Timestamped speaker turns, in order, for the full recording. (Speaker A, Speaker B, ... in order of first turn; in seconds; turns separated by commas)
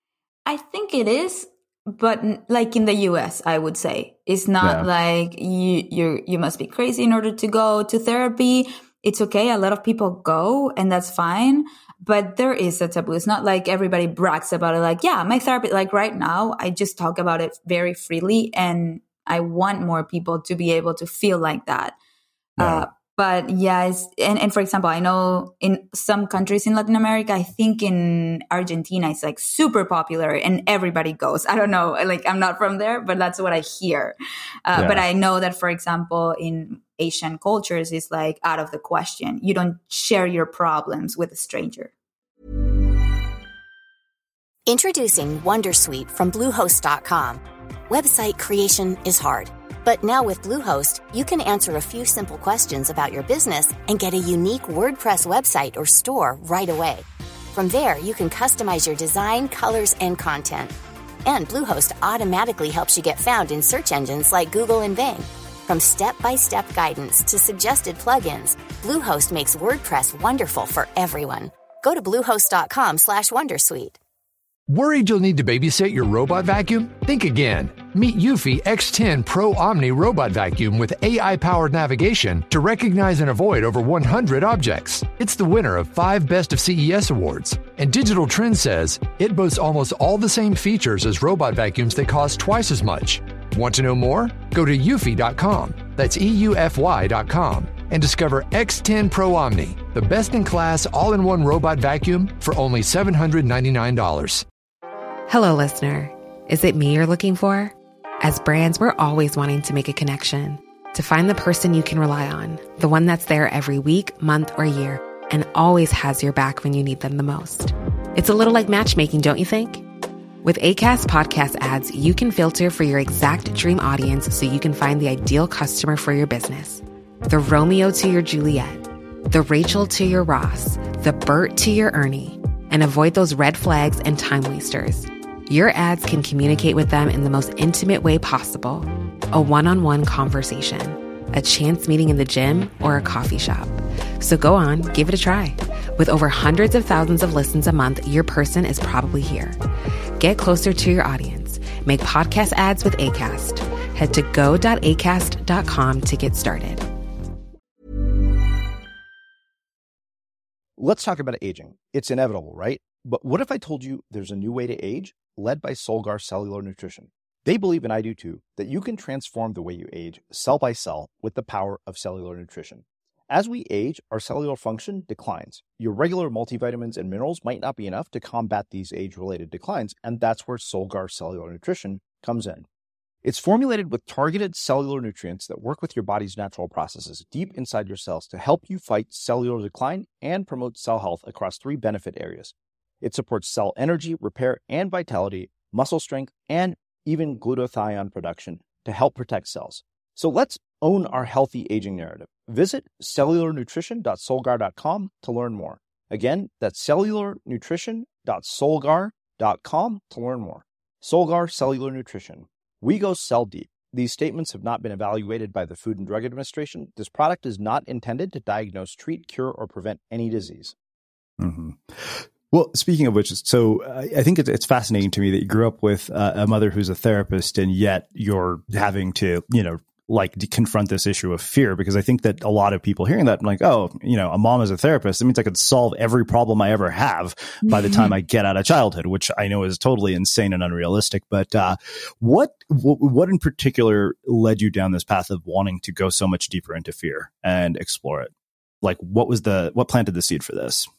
Speaker A: 0.5-21.9, Speaker B: 4.6-4.9, Speaker A: 22.6-34.1, Speaker B: 22.6-22.9, Speaker A: 34.6-41.9, Speaker B: 34.7-35.0, Speaker C: 44.7-60.7, Speaker C: 61.2-74.0, Speaker D: 74.7-104.4, Speaker E: 105.3-119.8, Speaker E: 120.4-149.6, Speaker E: 150.2-156.8, Speaker F: 160.8-182.7, Speaker F: 183.2-220.7, Speaker B: 221.4-248.3, Speaker A: 237.7-238.1, Speaker B: 248.8-250.9